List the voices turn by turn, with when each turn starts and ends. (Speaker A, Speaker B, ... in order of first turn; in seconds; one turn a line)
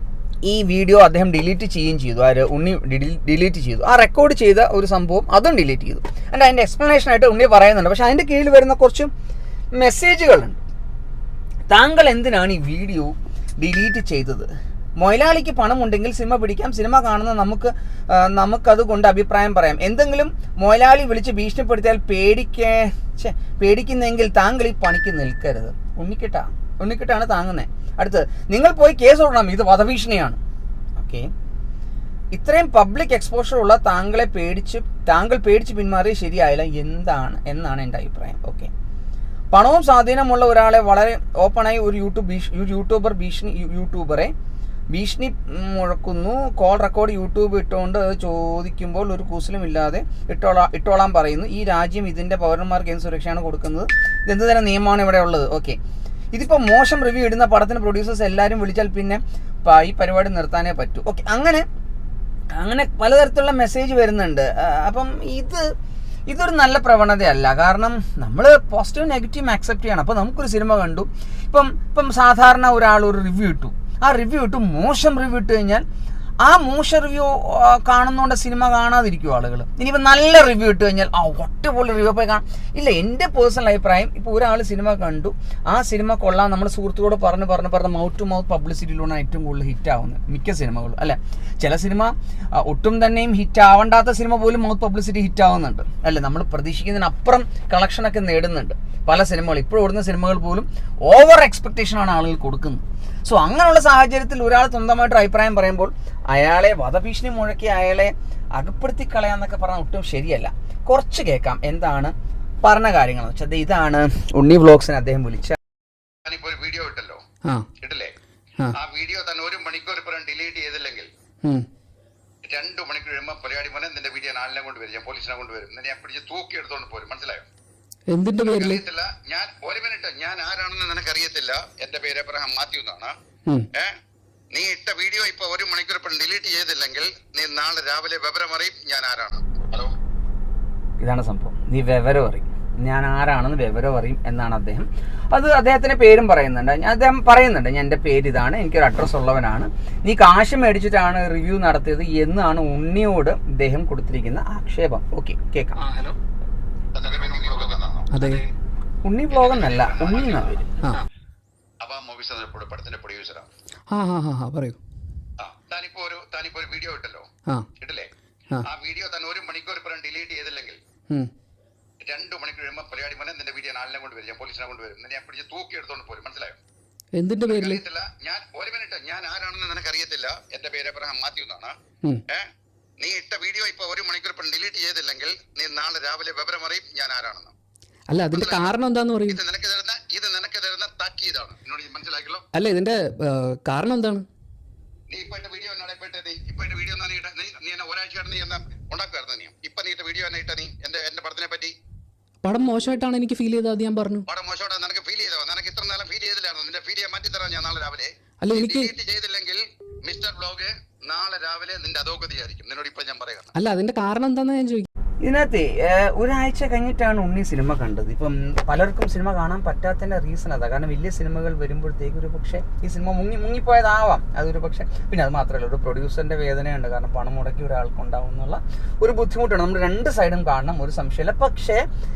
Speaker A: 0.4-9.1
Speaker A: 9.8-10.6
Speaker A: 11.7-30.4
Speaker A: 31.0-31.3
Speaker A: 32.3-38.7
Speaker A: 39.5-44.3
Speaker A: 44.9-55.8
Speaker A: 56.3-61.6
Speaker A: 62.5-65.7
Speaker A: 66.3-75.8
Speaker A: 76.4-115.6
Speaker B: 116.3-117.2
Speaker B: 117.8-118.1
Speaker B: 118.8-121.1
Speaker B: 122.5-127.5
Speaker C: 128.1-128.8
Speaker B: 128.4-133.1
Speaker B: 134.5-139.9
Speaker A: 141.0-155.8
Speaker B: 156.9-158.1
Speaker C: 158.1-158.4
Speaker A: 159.1-160.6
Speaker B: 159.3-160.5
Speaker B: 161.8-163.5
Speaker C: 163.9-164.8
Speaker B: 165.4-167.3
Speaker B: 167.8-168.1
Speaker B: 168.7-170.8
Speaker B: 172.0-176.6
Speaker C: 177.2-177.8
Speaker B: 177.4-181.7
Speaker B: 183.0-187.5
Speaker C: 188.1-189.4
Speaker B: 188.3-188.7
Speaker B: 189.3-192.4
Speaker C: 192.5-194.2
Speaker B: 195.1-201.7
Speaker C: 202.4-204.2
Speaker B: 204.3-213.5
Speaker C: 208.4-208.9
Speaker C: 213.6-214.9
Speaker A: 215.2-231.8